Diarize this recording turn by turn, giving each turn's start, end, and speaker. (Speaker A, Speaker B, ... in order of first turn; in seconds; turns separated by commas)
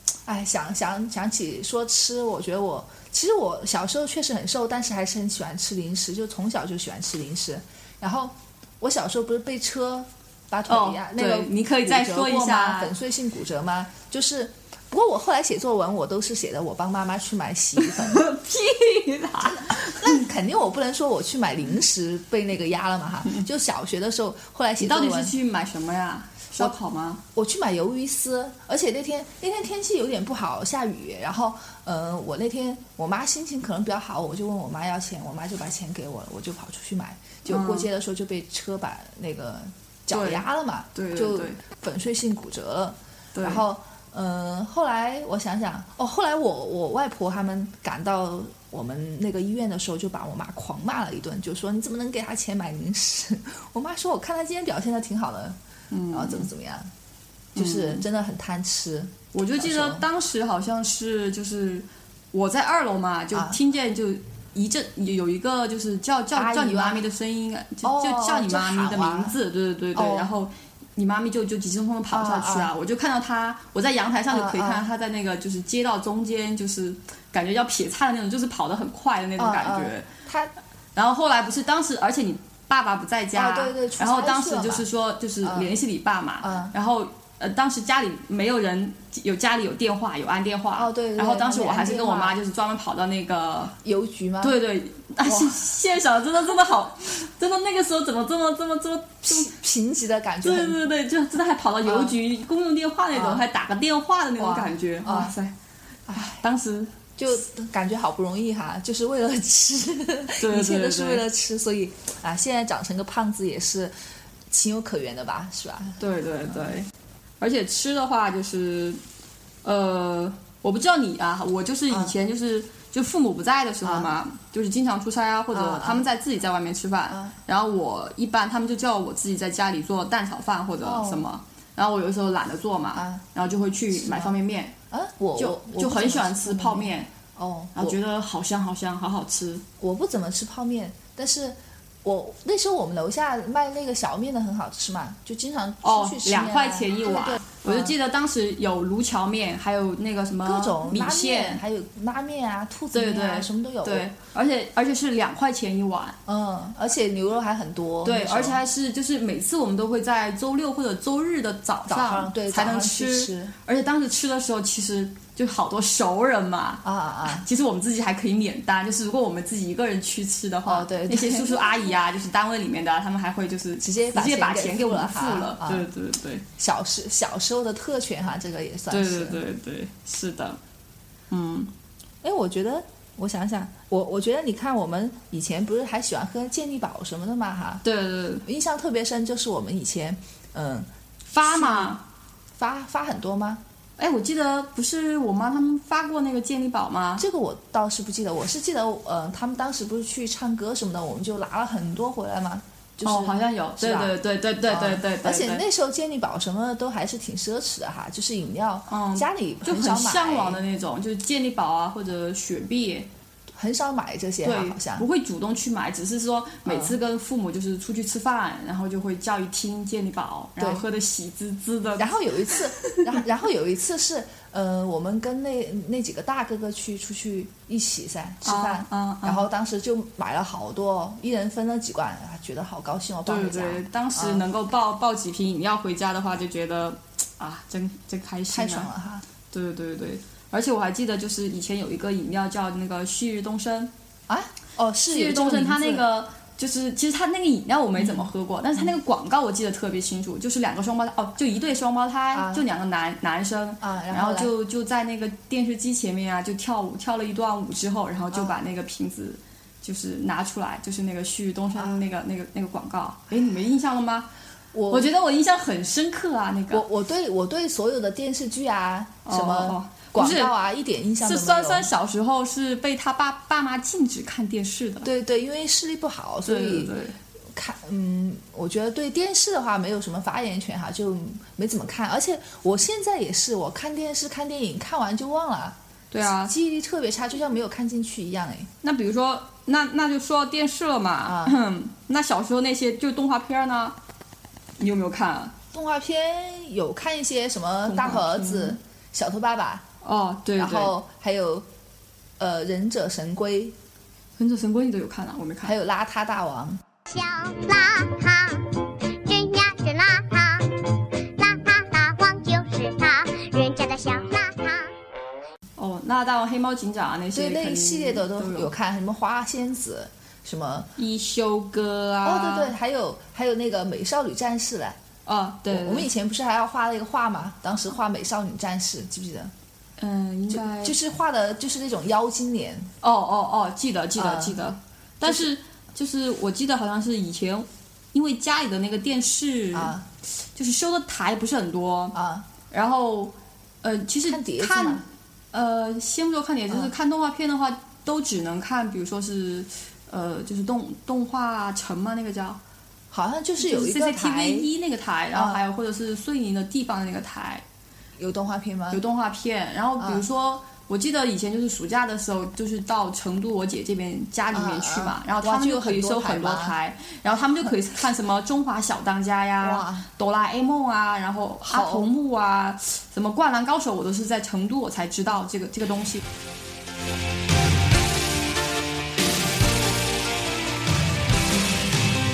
Speaker A: 0.3-18.2, Speaker B: 10.7-12.9, Speaker B: 17.8-20.3, Speaker A: 19.4-25.3, Speaker B: 24.8-27.2, Speaker A: 27.4-55.6, Speaker B: 37.5-37.9, Speaker B: 40.1-41.6, Speaker B: 43.4-43.6, Speaker B: 55.9-56.5, Speaker A: 56.1-56.9, Speaker A: 57.5-60.0, Speaker B: 57.6-58.0, Speaker B: 59.3-80.1, Speaker A: 63.3-63.6, Speaker A: 66.3-67.0, Speaker A: 67.8-69.4, Speaker A: 70.0-70.3, Speaker A: 72.1-72.7, Speaker A: 74.3-74.9, Speaker A: 79.4-80.5, Speaker B: 81.0-93.7, Speaker A: 83.3-84.8, Speaker A: 85.4-85.8, Speaker A: 86.4-86.7, Speaker A: 90.8-92.4, Speaker A: 93.8-94.6, Speaker B: 94.4-99.5, Speaker A: 95.2-95.7, Speaker A: 99.2-100.8, Speaker B: 100.4-105.5, Speaker A: 101.8-102.2, Speaker A: 103.1-103.5, Speaker A: 104.4-105.3, Speaker A: 106.1-106.4, Speaker B: 106.2-106.9, Speaker A: 107.2-113.9, Speaker B: 110.4-111.2, Speaker A: 114.5-116.0, Speaker B: 116.0-116.9, Speaker B: 117.4-119.0, Speaker B: 119.6-134.8, Speaker A: 123.8-124.1, Speaker A: 125.5-126.0, Speaker A: 127.1-127.4, Speaker A: 130.8-131.2, Speaker A: 132.9-133.2, Speaker A: 133.9-134.4, Speaker A: 134.9-138.0, Speaker B: 135.4-137.1, Speaker B: 137.8-139.6, Speaker A: 139.8-147.9, Speaker B: 145.8-151.6, Speaker A: 150.4-154.1, Speaker B: 152.9-156.2, Speaker A: 156.3-158.6, Speaker B: 158.0-176.4, Speaker A: 161.9-163.5, Speaker A: 166.8-167.5, Speaker A: 170.7-172.0, Speaker A: 173.8-175.9, Speaker A: 176.6-179.4, Speaker B: 178.9-180.6, Speaker B: 181.3-181.7, Speaker A: 182.2-187.8, Speaker B: 187.8-188.4, Speaker A: 188.4-190.9, Speaker B: 191.3-192.0, Speaker A: 191.4-192.0, Speaker A: 192.6-193.6, Speaker B: 194.0-197.2, Speaker A: 197.2-204.2, Speaker B: 203.0-205.6, Speaker A: 204.7-210.6, Speaker B: 208.9-213.1, Speaker A: 213.5-215.1, Speaker B: 214.4-223.0, Speaker A: 216.7-217.0, Speaker A: 220.6-220.8, Speaker A: 222.0-234.5, Speaker B: 228.4-229.5, Speaker B: 233.3-238.9, Speaker A: 238.5-239.2, Speaker B: 239.5-243.9, Speaker A: 244.3-246.1, Speaker B: 245.1-264.3, Speaker A: 248.0-248.8, Speaker A: 252.3-252.7, Speaker A: 253.8-254.5, Speaker A: 258.3-258.6, Speaker A: 261.8-262.0, Speaker A: 264.7-265.1, Speaker B: 264.9-266.9, Speaker A: 266.7-271.9, Speaker B: 269.2-270.6, Speaker B: 271.2-275.1, Speaker A: 275.0-276.9, Speaker B: 276.4-277.2, Speaker A: 277.5-288.7, Speaker B: 286.1-286.5, Speaker B: 288.8-294.0, Speaker A: 291.2-291.6, Speaker B: 294.8-295.5, Speaker A: 295.7-299.9, Speaker B: 297.9-298.8, Speaker B: 300.0-300.9, Speaker A: 300.6-301.7, Speaker A: 302.4-303.8, Speaker B: 304.4-305.8, Speaker A: 305.6-306.8, Speaker C: 307.1-314.9, Speaker B: 315.8-318.7, Speaker A: 317.3-320.9, Speaker B: 321.0-322.7, Speaker A: 322.2-325.0, Speaker B: 325.3-326.1, Speaker A: 325.7-329.5, Speaker B: 330.0-331.0, Speaker A: 330.5-332.9, Speaker B: 333.0-339.9, Speaker A: 334.2-334.6, Speaker A: 335.2-335.5, Speaker A: 339.7-340.1, Speaker B: 340.6-342.2, Speaker A: 342.1-342.5, Speaker B: 342.7-352.6, Speaker A: 344.3-345.1, Speaker A: 353.1-354.7, Speaker B: 353.6-357.6, Speaker A: 355.3-355.6, Speaker A: 358.2-359.0, Speaker B: 358.9-376.2, Speaker A: 360.0-360.2, Speaker A: 364.5-366.8, Speaker A: 369.6-370.1, Speaker A: 371.7-372.1